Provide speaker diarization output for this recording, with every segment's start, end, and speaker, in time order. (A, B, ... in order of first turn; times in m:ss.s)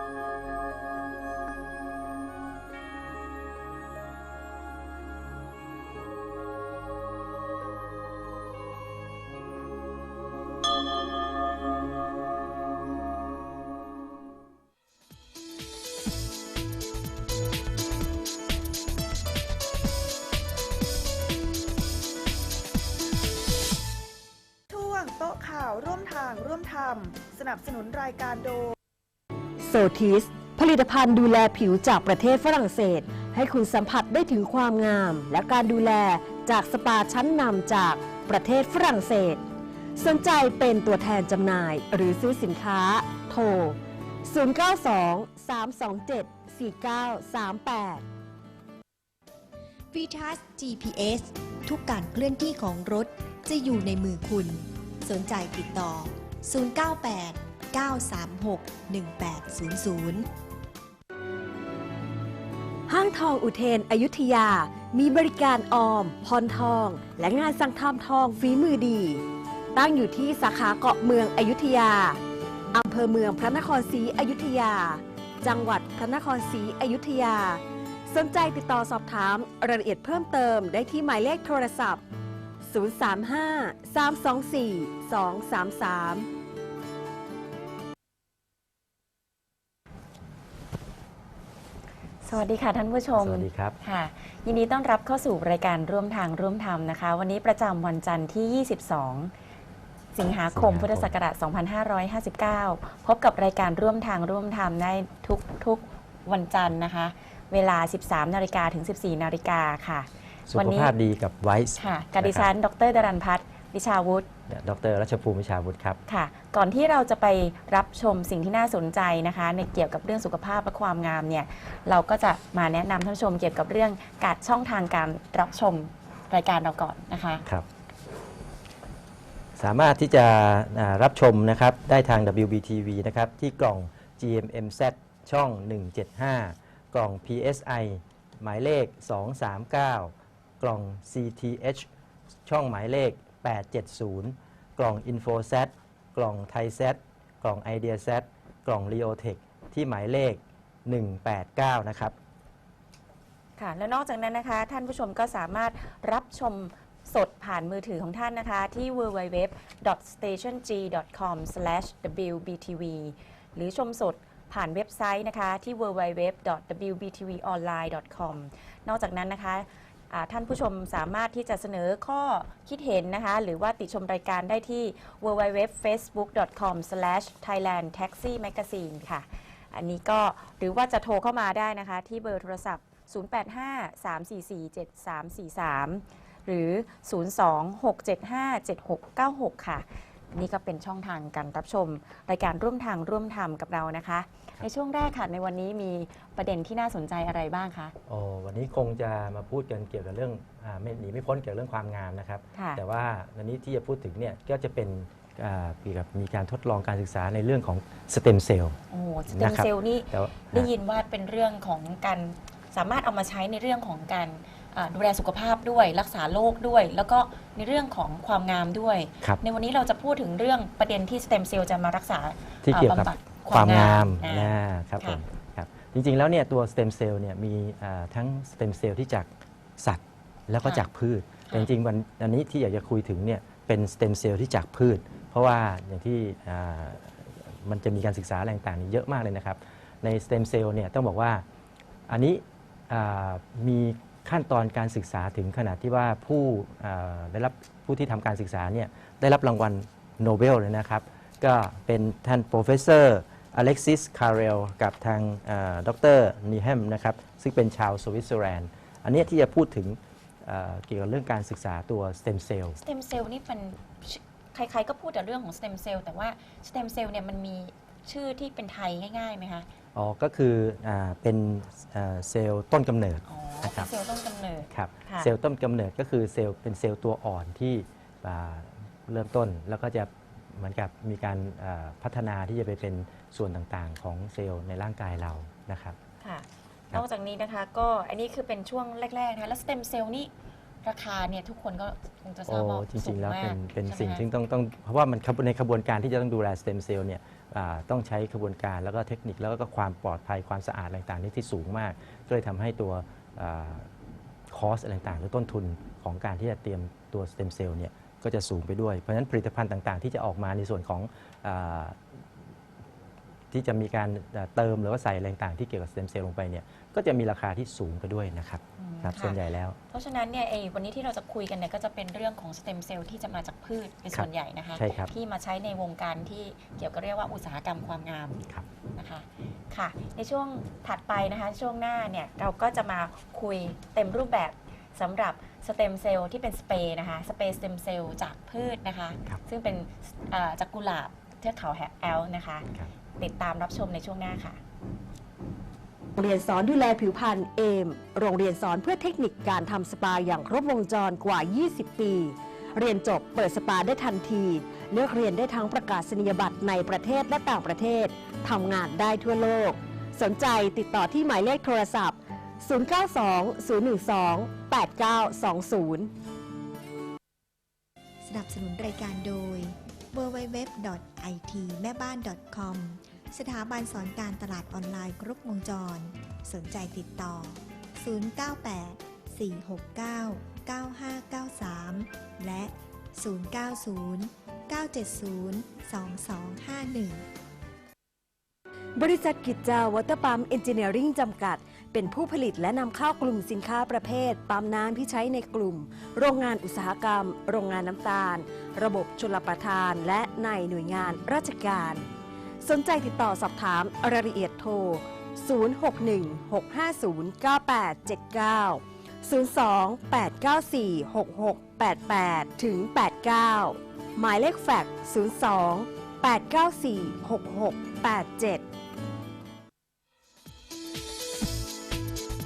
0:24.7-0:28.7 A
0:29.6-0:39.4 B
0:40.0-0:48.0 B
0:49.9-1:00.3 C
1:02.9-1:09.2 B
1:09.7-1:12.2 B
1:12.7-1:22.0 B
1:22.6-1:26.3 B
1:32.2-1:39.3 D
1:33.2-1:33.8 E
1:40.1-1:50.9 D
1:40.5-1:41.1 E
1:50.5-1:52.5 E
1:51.8-1:54.3 D
1:54.5-1:56.0 E
1:56.1-2:07.4 D
2:09.6-2:21.9 E
2:22.4-2:32.2 E
2:33.6-3:17.9 D
3:18.1-3:28.8 E
3:22.5-3:22.8 D
3:28.9-3:45.2 D
3:29.3-3:30.7 E
3:42.6-4:01.4 E
4:02.1-4:22.8 E
4:22.8-4:29.7 D
4:29.9-4:33.9 E
4:33.2-4:35.3 D
4:34.7-4:46.0 E
4:46.2-4:50.3 D
4:50.8-4:54.2 D
4:52.5-5:03.9 E
5:04.5-5:12.0 E
5:13.5-5:19.8 E
5:18.8-5:19.4 D
5:19.9-5:28.4 D
5:24.1-5:25.1 E
5:29.0-5:42.7 D
5:43.2-5:44.6 D
5:46.2-6:06.1 B
6:08.2-6:27.2 C
6:29.0-6:42.1 B
6:42.6-6:58.6 B